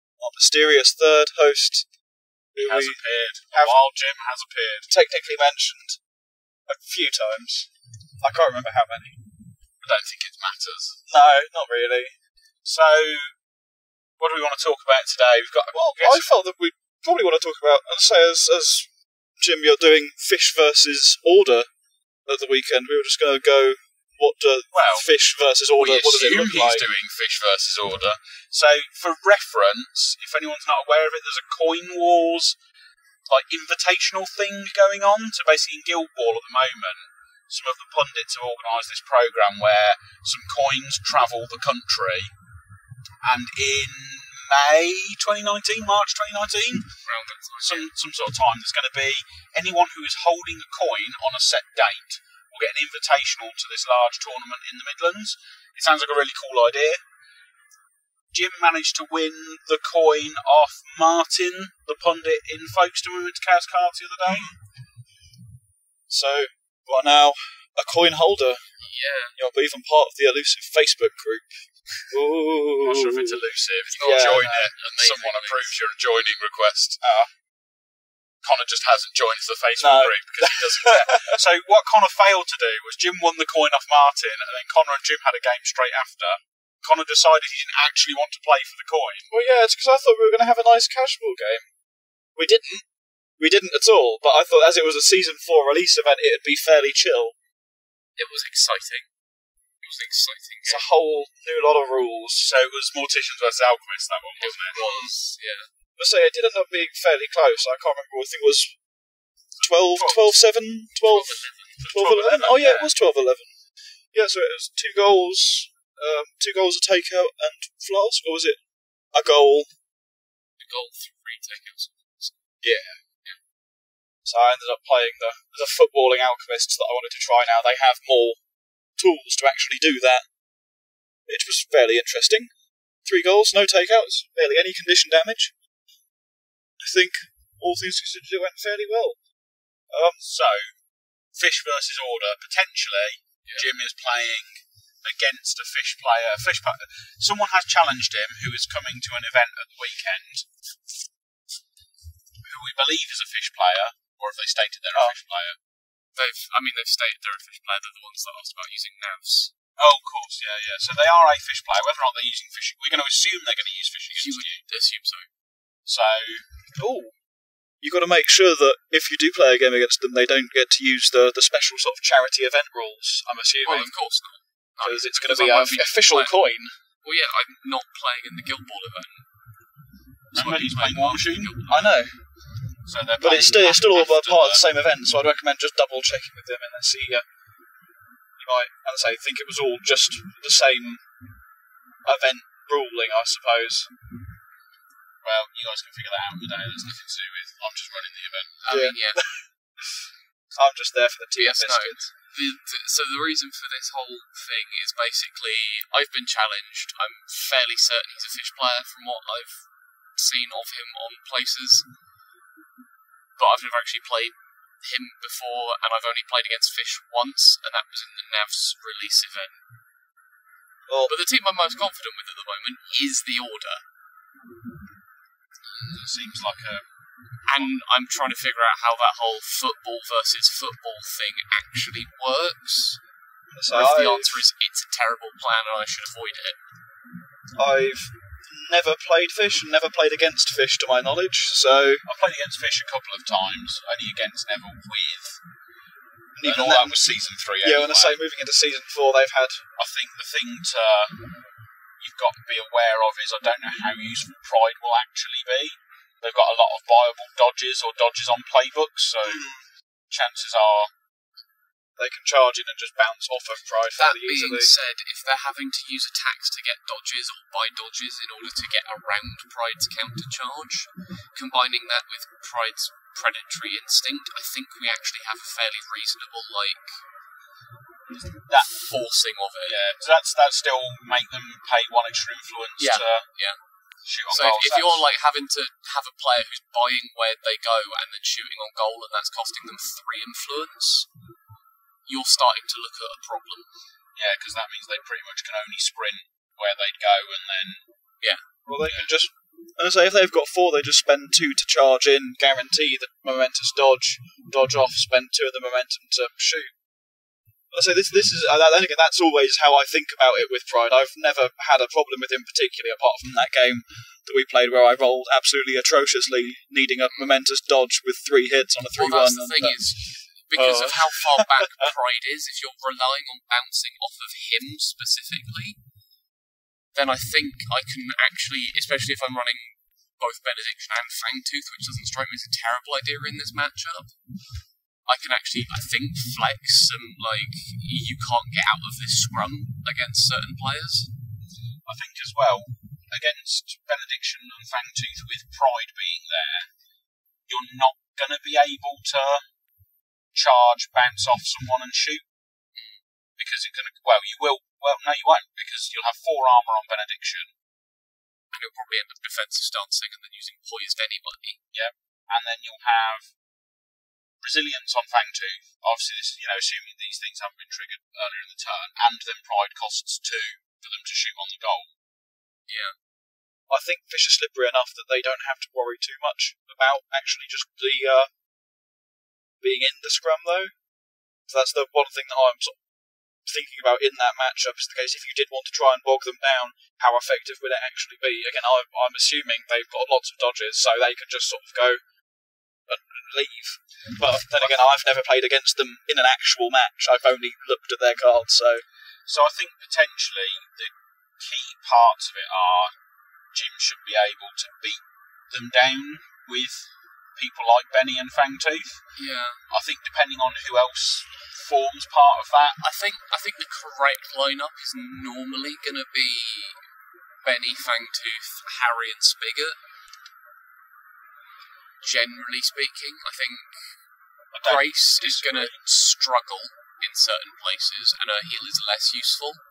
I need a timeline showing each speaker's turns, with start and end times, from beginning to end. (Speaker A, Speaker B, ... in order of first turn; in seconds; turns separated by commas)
Speaker A: 0.2-1.9, Speaker A: 2.5-3.8, Speaker B: 2.6-4.9, Speaker A: 4.9-6.0, Speaker A: 6.7-9.2, Speaker B: 9.8-11.0, Speaker A: 11.1-12.2, Speaker B: 12.6-13.3, Speaker B: 14.2-16.3, Speaker A: 15.7-21.7, Speaker A: 22.2-26.9, Speaker B: 24.7-25.1, Speaker B: 25.7-32.6, Speaker B: 33.3-42.3, Speaker B: 43.2-47.0, Speaker C: 47.0-47.9, Speaker B: 47.6-57.0, Speaker B: 58.3-64.5, Speaker A: 66.1-73.5, Speaker C: 68.8-69.4, Speaker B: 72.8-77.0, Speaker C: 73.9-75.8, Speaker A: 74.0-74.7, Speaker A: 77.0-77.3, Speaker B: 78.4-89.3, Speaker A: 79.8-81.4, Speaker A: 89.3-91.7, Speaker A: 92.3-92.8, Speaker A: 93.4-97.3, Speaker C: 98.2-99.1, Speaker C: 99.8-100.9, Speaker A: 100.6-102.5, Speaker B: 102.4-105.1, Speaker C: 104.4-105.7, Speaker A: 106.0-108.8, Speaker A: 109.6-113.6, Speaker B: 109.6-110.3, Speaker C: 111.0-112.9, Speaker B: 111.8-112.7, Speaker A: 114.1-119.7, Speaker C: 120.6-122.5, Speaker A: 122.6-123.0, Speaker A: 124.2-128.4, Speaker A: 129.0-130.3, Speaker A: 131.2-132.5, Speaker A: 133.0-135.5, Speaker A: 136.8-139.2, Speaker A: 139.9-140.3, Speaker B: 140.2-140.8, Speaker B: 141.3-150.5, Speaker B: 152.4-155.6, Speaker C: 156.1-159.5, Speaker B: 159.8-164.6, Speaker C: 164.1-165.3, Speaker B: 165.8-166.6, Speaker A: 166.7-167.2, Speaker A: 167.8-174.2, Speaker C: 173.6-176.4, Speaker A: 174.8-176.7, Speaker C: 177.0-179.3, Speaker C: 180.3-182.0, Speaker B: 180.3-181.6, Speaker A: 181.7-182.2, Speaker B: 182.8-184.7, Speaker A: 183.2-187.2, Speaker A: 188.4-191.1, Speaker A: 192.0-193.9, Speaker B: 195.2-198.6, Speaker C: 198.6-199.3, Speaker A: 198.7-199.5, Speaker A: 200.5-202.1, Speaker C: 201.3-211.9, Speaker C: 213.3-219.6, Speaker A: 220.8-221.1, Speaker C: 221.1-223.8, Speaker B: 225.9-227.7, Speaker C: 227.4-233.0, Speaker A: 233.5-234.4, Speaker C: 233.7-236.6, Speaker A: 237.5-242.1, Speaker B: 242.1-245.4, Speaker A: 246.3-249.6, Speaker B: 246.4-248.2, Speaker B: 249.8-251.4, Speaker B: 252.0-260.9, Speaker A: 261.9-264.7, Speaker C: 263.9-277.0, Speaker B: 278.2-278.9, Speaker C: 278.6-279.8, Speaker B: 279.6-283.4, Speaker C: 282.8-283.6, Speaker B: 284.0-285.0, Speaker C: 284.1-291.1, Speaker C: 292.0-293.7, Speaker B: 294.1-297.8, Speaker A: 298.6-306.7, Speaker A: 307.7-321.9, Speaker C: 317.0-317.4, Speaker C: 318.9-325.8, Speaker C: 326.9-334.2, Speaker C: 335.0-341.1, Speaker B: 341.8-346.7, Speaker B: 347.5-349.5, Speaker B: 350.3-352.2, Speaker C: 352.7-353.0, Speaker B: 353.4-357.5, Speaker C: 358.5-361.6, Speaker B: 361.7-363.3, Speaker B: 364.4-371.9, Speaker C: 372.7-373.0, Speaker A: 373.7-378.3, Speaker A: 379.6-380.7, Speaker A: 381.5-382.8, Speaker A: 383.4-392.0, Speaker A: 392.9-398.9, Speaker B: 394.2-394.8, Speaker B: 399.2-402.9, Speaker B: 403.5-409.0, Speaker C: 409.1-409.6, Speaker B: 409.7-412.8, Speaker C: 412.8-416.9, Speaker C: 417.4-419.8, Speaker C: 422.0-424.0, Speaker B: 424.5-425.8, Speaker C: 424.6-429.6